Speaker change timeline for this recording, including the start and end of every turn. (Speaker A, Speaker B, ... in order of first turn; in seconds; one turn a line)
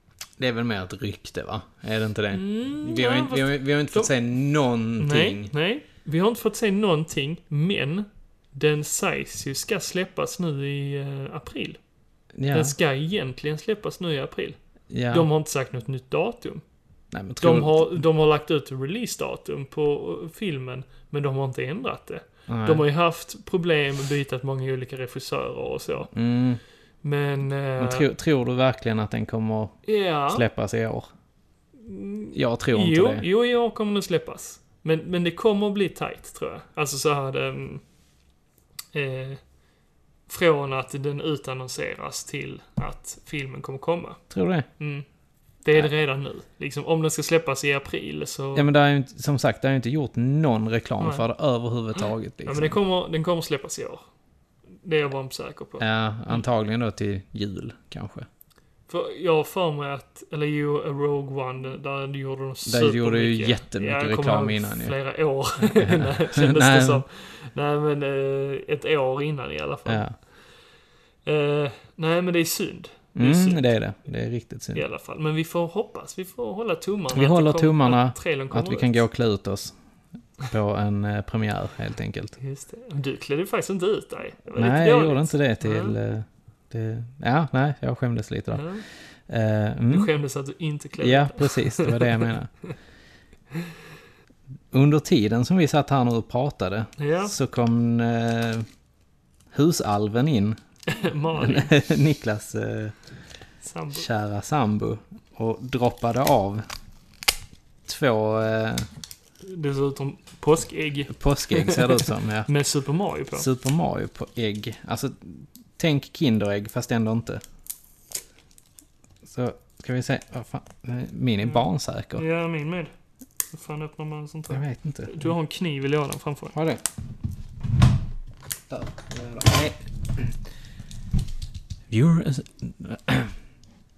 Speaker A: 0.4-5.5
Speaker B: 2.3-4.1
Speaker B: 5.0-11.8
Speaker A: 12.3-12.7
Speaker B: 12.5-14.6
Speaker A: 14.9-15.3
Speaker B: 15.1-16.6
Speaker A: 17.1-18.0
Speaker B: 17.4-26.1
Speaker A: 22.5-22.8
Speaker A: 26.1-26.6
Speaker B: 27.0-28.1
Speaker A: 27.8-31.1
Speaker B: 29.9-30.4
Speaker B: 31.8-37.8
Speaker A: 32.3-33.2
Speaker B: 38.9-39.4
Speaker B: 40.3-44.2
Speaker A: 44.3-44.7
Speaker B: 44.8-45.0
Speaker B: 45.6-48.7
Speaker A: 48.5-52.8
Speaker B: 51.0-51.2
Speaker B: 52.4-54.0
Speaker B: 54.8-56.4
Speaker A: 55.8-58.3
Speaker B: 58.9-70.0
Speaker A: 62.6-64.9
Speaker A: 65.8-67.0
Speaker A: 69.8-70.2
Speaker B: 71.2-73.7
Speaker A: 73.1-74.8
Speaker B: 74.7-79.0
Speaker A: 77.1-79.8
Speaker A: 80.4-82.4
Speaker B: 82.4-86.0
Speaker A: 84.5-88.7
Speaker B: 88.5-88.8
Speaker A: 89.3-90.1
Speaker B: 89.9-92.3
Speaker A: 91.0-92.5
Speaker A: 94.7-98.7
Speaker B: 97.0-97.3
Speaker A: 99.5-100.6
Speaker B: 100.9-101.7
Speaker A: 101.3-103.0
Speaker B: 103.6-104.1
Speaker A: 103.9-106.7
Speaker A: 107.8-108.9
Speaker B: 109.4-113.5
Speaker A: 111.1-112.5
Speaker A: 113.3-117.4
Speaker A: 119.2-122.2
Speaker B: 122.2-122.9
Speaker B: 123.5-126.5
Speaker A: 124.5-125.3
Speaker A: 126.5-126.8
Speaker A: 128.7-130.3
Speaker A: 131.9-133.3